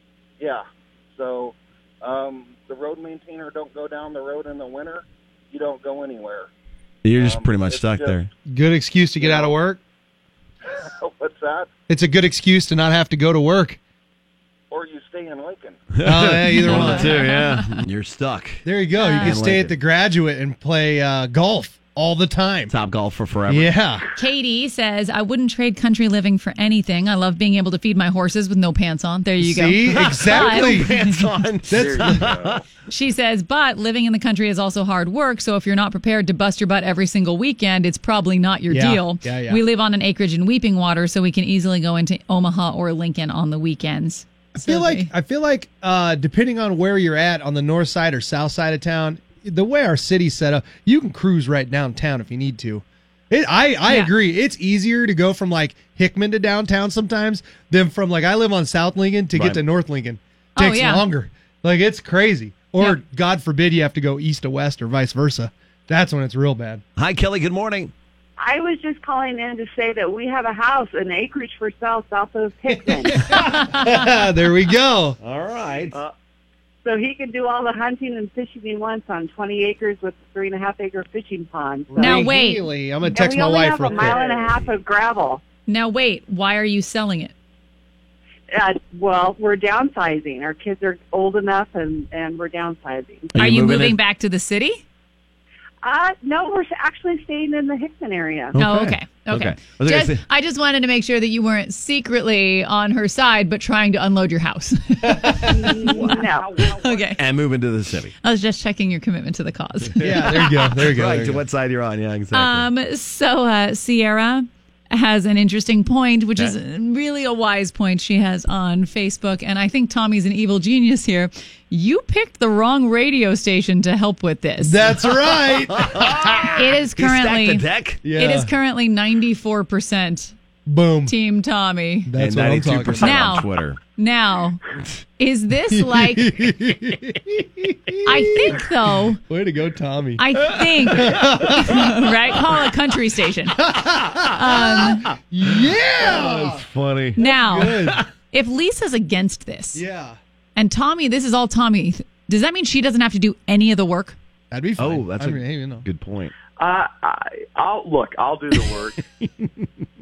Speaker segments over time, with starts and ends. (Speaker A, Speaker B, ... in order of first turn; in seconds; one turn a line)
Speaker A: 0.4-6.5
Speaker B: 7.0-8.3
Speaker A: 7.1-8.2
Speaker C: 8.5-9.8
Speaker A: 9.2-9.5
Speaker A: 10.8-11.7
Speaker C: 11.9-13.8
Speaker A: 14.7-15.8
Speaker B: 16.0-18.6
Speaker C: 16.0-17.3
Speaker D: 16.6-17.7
Speaker C: 18.6-22.8
Speaker D: 18.9-19.4
Speaker B: 19.2-19.8
Speaker B: 22.7-23.7
Speaker C: 23.5-24.1
Speaker D: 24.1-31.1
Speaker C: 29.4-31.0
Speaker B: 30.1-32.6
Speaker C: 31.7-32.4
Speaker D: 32.9-45.1
Speaker C: 38.7-39.6
Speaker C: 44.5-66.8
Speaker D: 53.9-54.1
Speaker B: 59.3-59.6
Speaker D: 60.6-61.1
Speaker B: 67.0-67.9
Speaker E: 68.4-73.3
Speaker C: 72.7-75.2
Speaker B: 75.2-76.0
Speaker E: 76.8-82.3
Speaker C: 81.9-84.2
Speaker D: 82.0-82.7
Speaker E: 83.0-85.4
Speaker D: 85.7-87.3
Speaker E: 88.5-93.3
Speaker B: 93.3-94.0
Speaker D: 93.4-94.8
Speaker E: 95.8-98.6
Speaker B: 98.6-100.2
Speaker D: 98.6-107.2
Speaker C: 105.2-105.9
Speaker E: 105.5-106.5
Speaker A: 106.0-107.1
Speaker B: 107.2-108.1
Speaker D: 108.2-110.5
Speaker B: 110.0-112.7
Speaker C: 110.0-111.5
Speaker D: 112.3-124.9
Speaker C: 124.6-126.6
Speaker B: 125.8-128.0
Speaker D: 126.5-130.3
Speaker C: 128.0-128.5
Speaker C: 130.7-131.2
Speaker D: 131.1-132.1
Speaker C: 132.1-133.4
Speaker B: 132.2-133.8
Speaker D: 133.0-134.6
Speaker D: 135.2-136.3
Speaker C: 135.7-138.6
Speaker D: 138.1-139.2
Speaker C: 139.2-140.2
Speaker D: 140.2-143.7
Speaker C: 140.8-141.9
Speaker C: 143.6-146.7
Speaker D: 144.2-145.1
Speaker B: 146.0-147.2
Speaker C: 147.2-148.1
Speaker D: 147.2-149.8
Speaker C: 149.8-150.2
Speaker D: 150.6-154.2
Speaker C: 154.5-155.9
Speaker B: 154.8-156.3
Speaker F: 156.6-159.0
Speaker B: 159.2-159.5